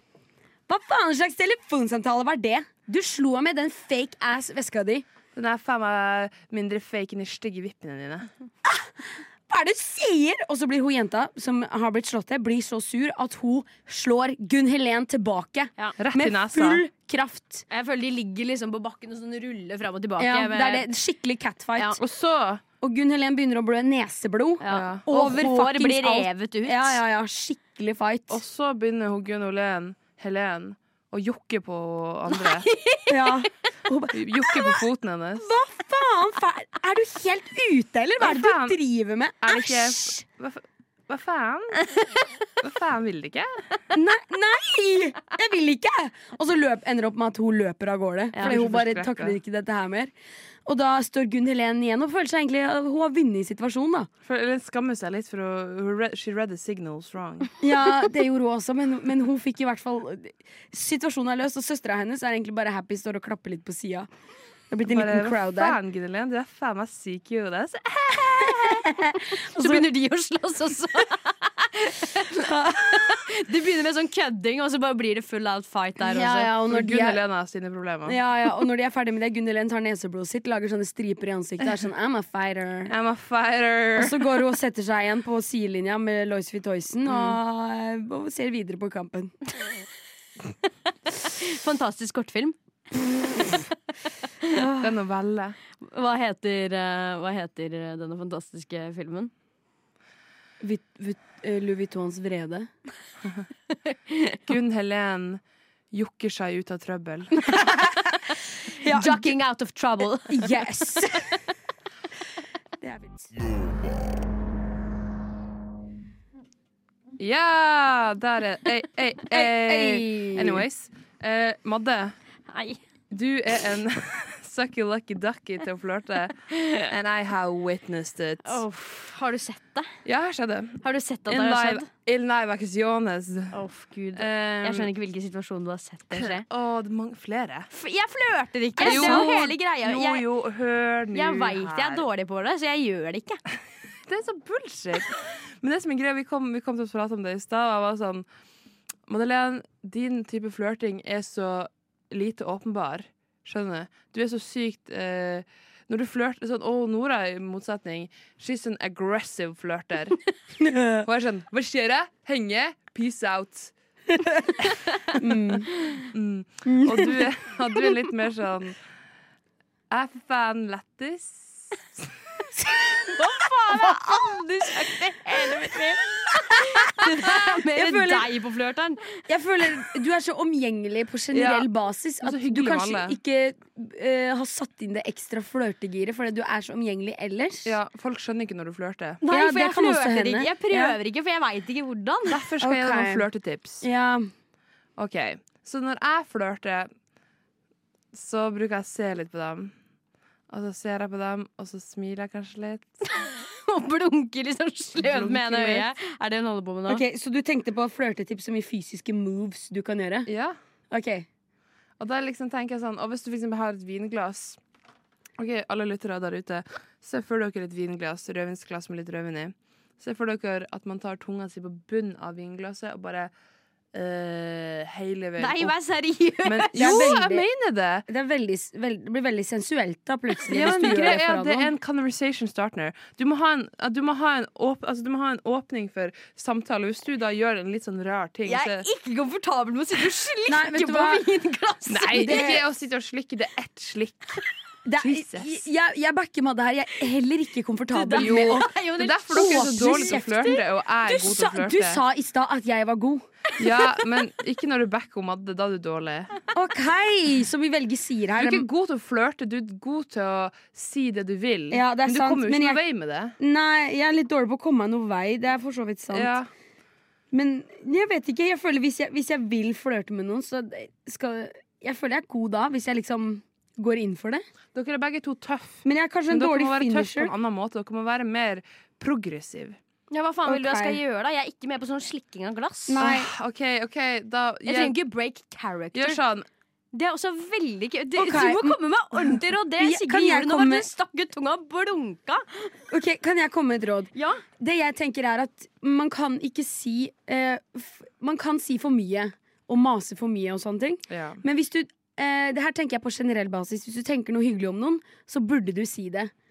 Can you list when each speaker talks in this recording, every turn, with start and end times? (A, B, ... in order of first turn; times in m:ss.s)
0:00.7-0:05.0 A
0:05.3-0:08.3 B
0:08.6-0:17.6 A
0:16.0-0:16.8 B
0:17.7-0:20.9 C
0:20.2-0:22.0 A
0:22.0-0:22.6 B
0:22.8-0:28.4 A
0:24.6-0:27.0 C
0:24.7-0:25.0 B
0:28.3-0:32.7 B
0:32.3-0:33.4 C
0:33.1-0:34.8 A
0:34.1-0:35.5 B
0:35.4-0:40.2 A
0:38.2-0:38.8 B
0:39.4-0:41.8 B
0:42.6-0:43.6 B
0:43.9-0:50.1 A
0:48.4-0:49.4 B
0:50.7-0:54.1 A
0:54.2-0:57.5 B
0:57.6-1:04.1 A
1:04.7-1:05.8 A
1:04.9-1:08.9 B
1:08.9-1:09.9 A
1:09.2-1:16.5 C
1:12.3-1:13.1 A
1:16.0-1:17.2 A
1:16.7-1:18.2 B
1:18.1-1:22.9 A
1:22.9-1:24.4 B
1:24.0-1:29.3 A
1:31.2-1:32.6 C
1:34.8-1:35.6 B
1:35.8-1:39.3 C
1:40.6-1:42.7 A
1:43.9-1:44.4 C
1:44.5-1:47.5 B
1:48.8-1:49.4 A
1:48.8-1:50.6 C
1:50.3-1:51.3 A
1:52.8-1:53.3 A
1:57.2-2:02.2 B
1:59.3-2:00.7 A
2:02.5-2:02.8 C
2:03.1-2:08.6 B
2:06.5-2:06.9 C
2:08.4-2:09.9 C
2:10.0-2:13.6 B
2:10.8-2:11.9 C
2:13.5-2:16.4 C
2:14.2-2:14.9 B
2:16.1-2:17.7 B
2:17.7-2:20.2 C
2:18.8-2:19.5 A
2:18.8-2:22.0 B
2:21.1-2:23.4 C
2:24.1-2:28.3 B
2:29.1-2:40.2 B
2:40.6-2:41.1 A
2:41.0-2:43.7 B
2:44.1-2:44.6 A
2:45.2-2:45.7 A
2:46.1-2:48.8 B
2:46.7-2:47.3 A
2:49.9-2:52.1 B
2:53.1-2:59.2 C
2:57.3-2:58.3 A
2:59.3-3:07.8 A
3:01.3-3:01.7 B
3:02.2-3:03.2 B
3:07.6-3:09.2 B
3:09.2-3:12.4 C
3:09.3-3:11.0 A
3:12.3-3:13.8 B
3:12.6-3:13.3 A
3:13.8-3:14.3 A
3:15.0-3:16.9 B
3:18.1-3:19.7 B
3:20.5-3:22.9 B
3:23.1-3:27.0 C
3:25.0-3:25.9 B
3:26.9-3:30.3 A
3:30.3-3:30.6 B
3:30.9-3:31.3 A
3:32.0-3:34.6 B
3:35.4-3:43.3 B
3:43.9-3:45.7 B
3:45.4-3:47.1 C
3:46.4-3:48.1 B
3:46.8-3:47.4 A
3:48.1-3:51.7 A
3:50.5-3:58.9 B
3:58.5-4:02.6 C
4:00.5-4:01.2 A
4:01.9-4:04.4 B
4:02.1-4:02.6 A
4:04.9-4:08.7 A
4:05.0-4:05.6 B
4:07.9-4:10.6 C
4:08.1-4:12.0 B
4:09.3-4:13.3 A
4:13.6-4:16.3 B
4:16.5-4:18.7 A
4:18.4-4:23.4 B
4:21.7-4:22.8 A
4:23.4-4:26.3 A
4:26.1-4:26.5 B
4:27.3-4:34.4 A
4:34.8-4:39.8 B
4:35.8-4:37.3 A
4:40.1-4:43.0 C
4:40.4-4:41.0 A
4:42.9-4:43.3 A
4:43.0-4:45.0 B
4:44.7-4:46.2 C
4:45.9-4:46.4 B
4:46.9-4:52.8 C
4:48.2-4:50.9 A
4:52.9-5:06.3 A
4:54.2-4:54.4 C
5:01.1-5:01.4 B